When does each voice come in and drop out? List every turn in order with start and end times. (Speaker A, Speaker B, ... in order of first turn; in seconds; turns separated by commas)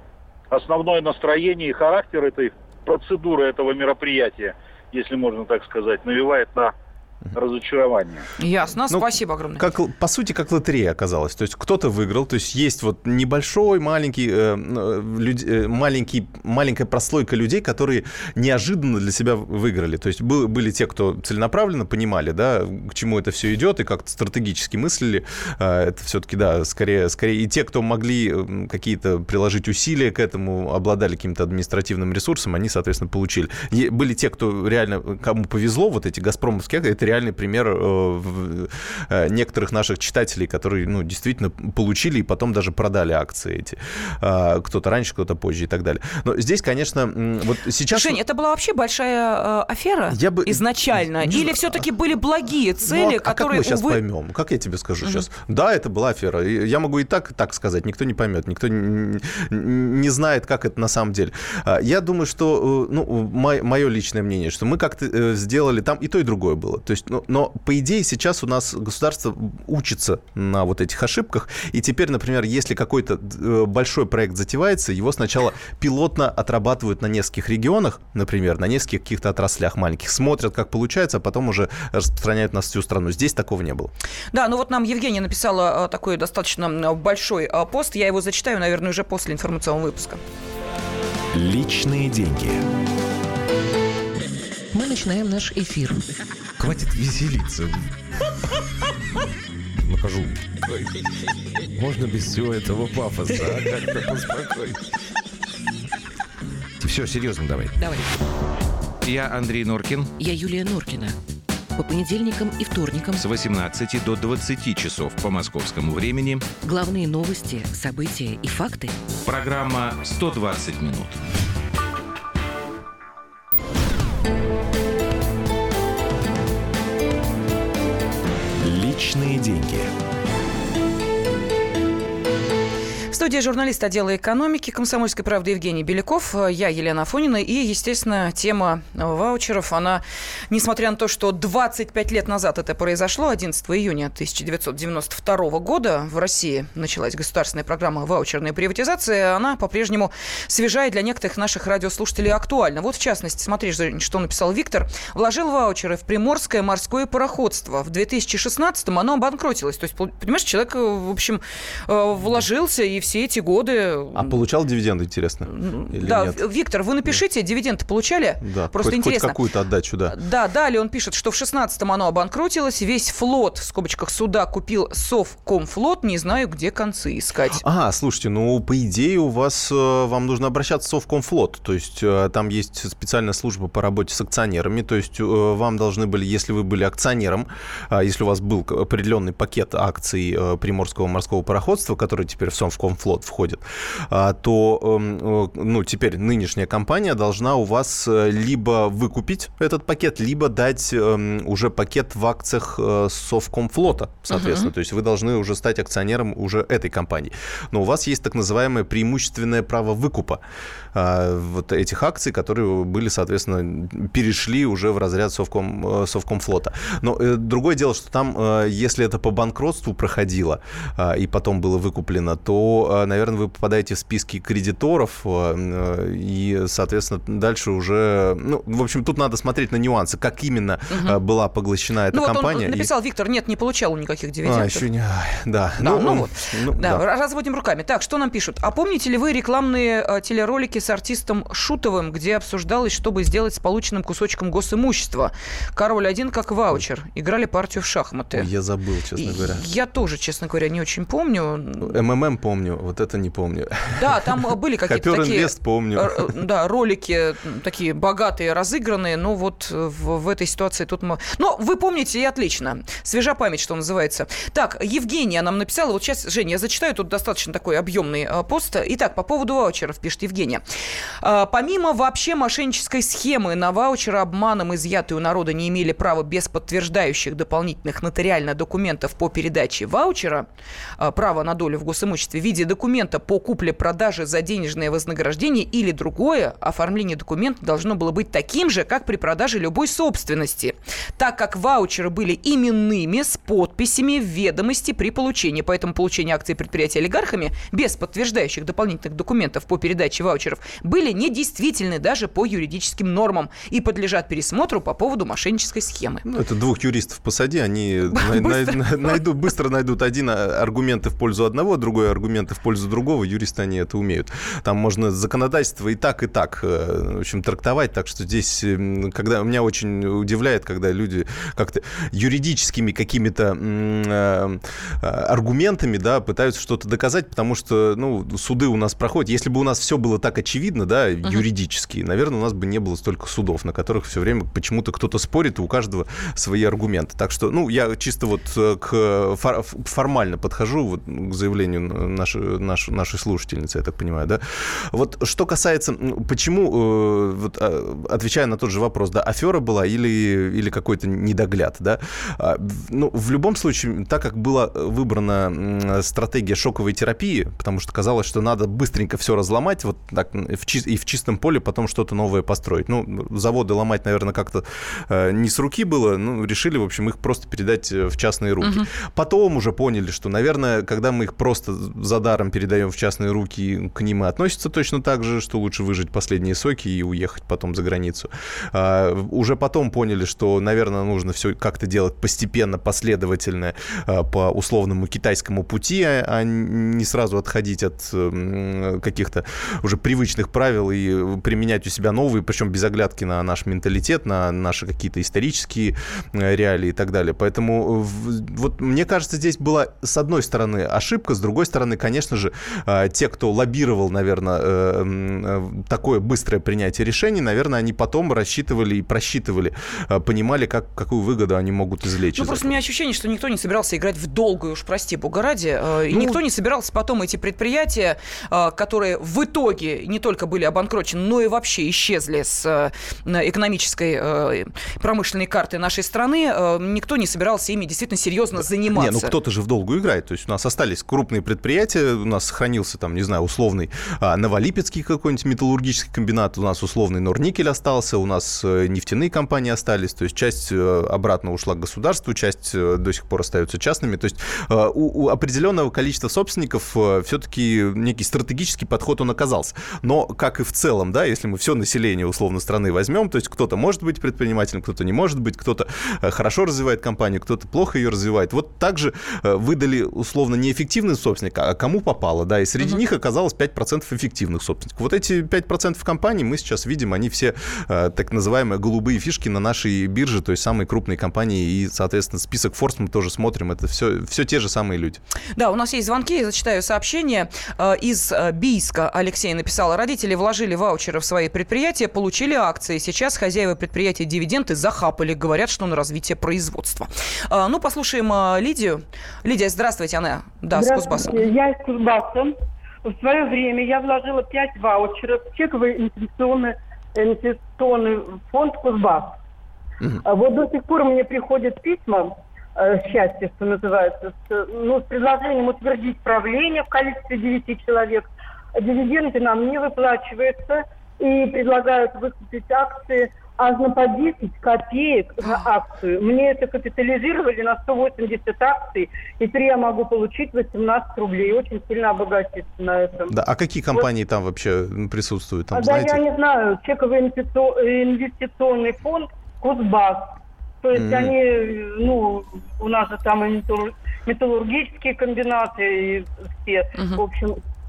Speaker A: 0.5-6.7, Speaker A: 7.3-8.3, Speaker B: 8.4-9.7, Speaker C: 8.9-48.2, Speaker B: 47.9-54.0, Speaker C: 50.1-51.8, Speaker C: 52.8-83.9, Speaker B: 84.3-90.2, Speaker D: 91.3-92.6, Speaker E: 94.7-96.0, Speaker F: 96.6-97.9, Speaker F: 99.8-100.9, Speaker F: 101.8-104.8, Speaker F: 106.8-107.8, Speaker E: 107.8-108.0, Speaker F: 109.0-110.1, Speaker E: 110.2-111.2, Speaker E: 111.8-113.3, Speaker F: 113.2-116.5, Speaker E: 116.6-118.9, Speaker F: 119.2-121.2, Speaker D: 128.6-129.9, Speaker B: 133.1-164.3, Speaker C: 164.2-166.4, Speaker B: 165.5-169.4, Speaker C: 168.4-170.2, Speaker B: 170.1-177.6, Speaker C: 177.6-210.4, Speaker B: 204.3-204.7, Speaker C: 210.9-232.9, Speaker B: 230.9-231.2, Speaker B: 232.1-234.9, Speaker C: 234.4-237.0, Speaker B: 235.8-248.5, Speaker C: 248.3-249.6, Speaker B: 249.2-252.0, Speaker C: 251.8-256.4, Speaker B: 254.0-270.6, Speaker B: 271.2-280.5, Speaker B: 281.0-306.2, Speaker C: 306.2-412.7, Speaker B: 308.1-309.2, Speaker B: 368.6-368.9, Speaker B: 412.4-429.4, Speaker C: 416.1-416.4, Speaker C: 428.6-475.2, Speaker B: 475.6-491.4, Speaker G: 490.7-492.5, Speaker G: 493.0-499.4, Speaker G: 500.2-523.3, Speaker C: 523.3-526.2, Speaker G: 525.7-530.3, Speaker G: 530.8-537.6, Speaker C: 530.9-531.3